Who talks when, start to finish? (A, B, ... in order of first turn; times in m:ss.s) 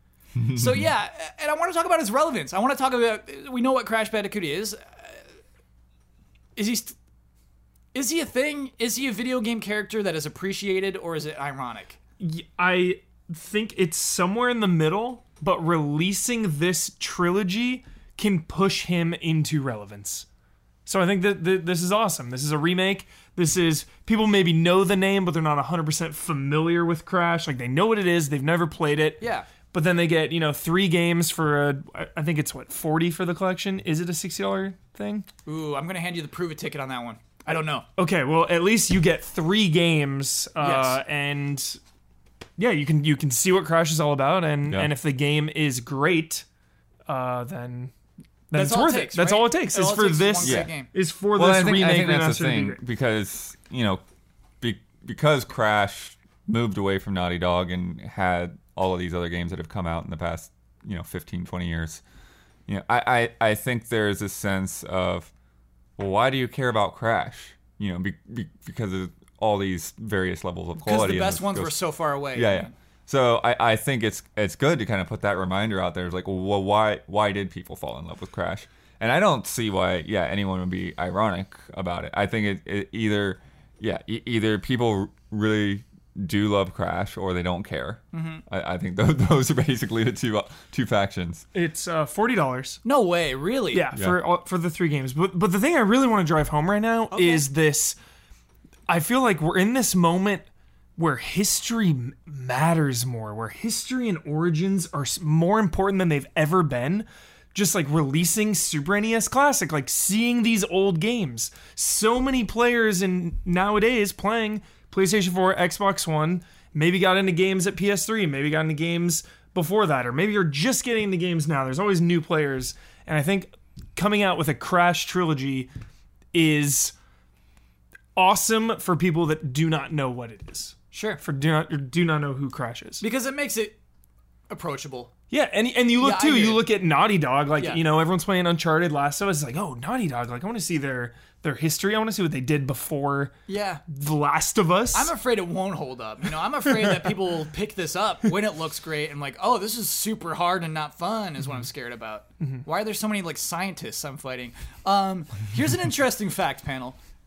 0:00.5-0:05.2 A
0:06.6-0:06.9 A
0:07.9-0:12.0 A
0:12.2-0:20.2 B
0:20.8-0:35.2 B
0:29.2-0:29.5 A
0:35.4-0:37.8 A
0:38.0-0:41.8 B
0:40.6-0:41.0 A
0:42.6-0:46.4 B
0:44.7-0:44.9 C
0:47.1-0:47.9 B
0:48.5-0:52.8 B
0:48.5-0:50.9 A
0:50.4-0:50.7 C
0:51.4-0:54.0 C
0:54.6-1:02.0 C
1:02.7-1:05.3 C
1:06.0-1:11.7 C
1:10.8-1:12.7 A
1:12.3-1:31.4 C
1:28.1-1:28.4 A
1:31.5-1:32.8 B
1:32.8-1:33.9 A
1:33.7-1:38.0 B
1:33.9-1:34.2 C
1:37.1-1:37.4 A
1:38.9-1:40.4 B
1:41.0-2:05.7 B
2:06.3-2:06.9 B
2:08.2-2:13.0 B
2:10.9-2:11.2 A
2:13.0-2:13.8 A
2:14.5-2:15.1 A
2:15.3-2:23.4 B
2:16.0-2:16.6 A
2:23.5-2:23.8 A
2:23.9-2:25.1 B
2:24.9-2:37.0 A